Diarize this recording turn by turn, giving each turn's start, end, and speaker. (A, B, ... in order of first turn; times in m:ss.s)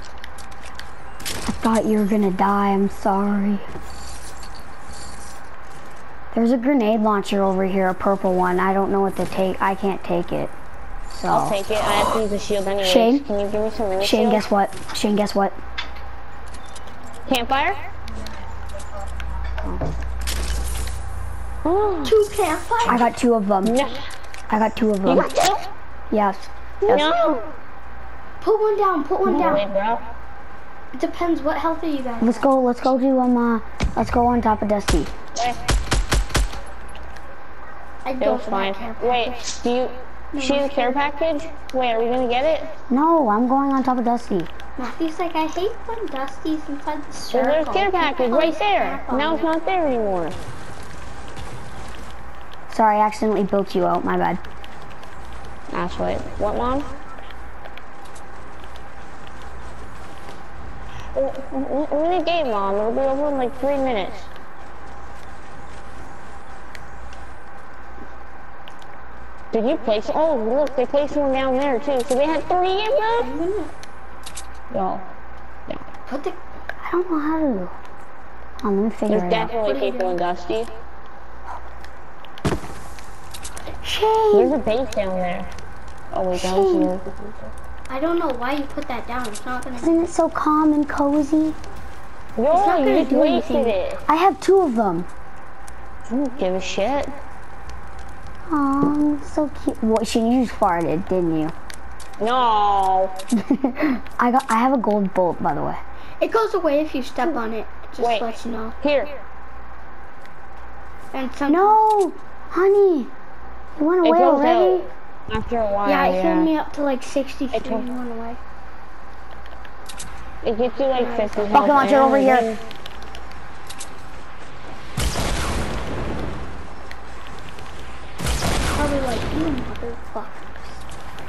0:01.4-0:03.7 A
0:06.3-0:10.5 A
0:11.1-0:11.6 A
0:11.3-0:14.4 B
0:12.8-0:13.3 A
0:14.0-0:15.6 A
0:17.3-0:17.8 B
0:21.6-0:22.2 B
0:22.0-0:23.1 C
0:22.9-0:23.8 A
0:23.6-0:24.0 B
0:24.5-0:25.3 A
0:25.1-0:25.7 B
0:26.1-0:27.1 A
0:26.8-0:27.5 B
0:28.4-0:29.6 C
0:29.2-0:30.1 B
0:30.9-0:32.5 C
0:32.2-0:35.1 A
0:35.3-0:35.6 B
0:38.0-0:39.4 C
0:38.2-0:42.7 B
0:40.3-0:41.0 C
0:42.9-0:44.5 A
0:44.8-0:49.5 C
0:47.2-0:50.4 B
0:52.7-0:54.4 A
0:55.7-0:56.9 B
1:01.1-1:04.3 B
1:09.5-1:13.3 B
1:13.2-1:13.7 C
1:14.7-1:15.1 B
1:16.1-1:16.4 C
1:16.8-1:17.7 A
1:18.6-1:19.5 A
1:19.1-1:20.7 B
1:19.6-1:20.2 C
1:23.8-1:24.6 A
1:24.3-1:25.5 B
1:26.1-1:27.5 B
1:26.3-1:26.9 A
1:27.9-1:30.0 C
1:29.8-1:31.6 A
1:32.4-1:34.0 B
1:32.5-1:33.8 C
1:34.1-1:35.1 A
1:36.1-1:37.2 B
1:38.5-1:41.5 A
1:42.2-1:43.2 B
1:43.4-1:45.8 A
1:46.2-1:48.8 C
1:48.0-1:49.1 B
1:51.1-1:51.8 C
1:51.5-1:53.1 A
1:53.8-1:54.9 A
1:54.0-1:56.5 B
1:55.8-1:58.4 C
1:57.5-1:57.9 B
2:00.4-2:02.6 B
2:01.0-2:01.8 C
2:01.5-2:02.5 A
2:08.7-2:10.8 C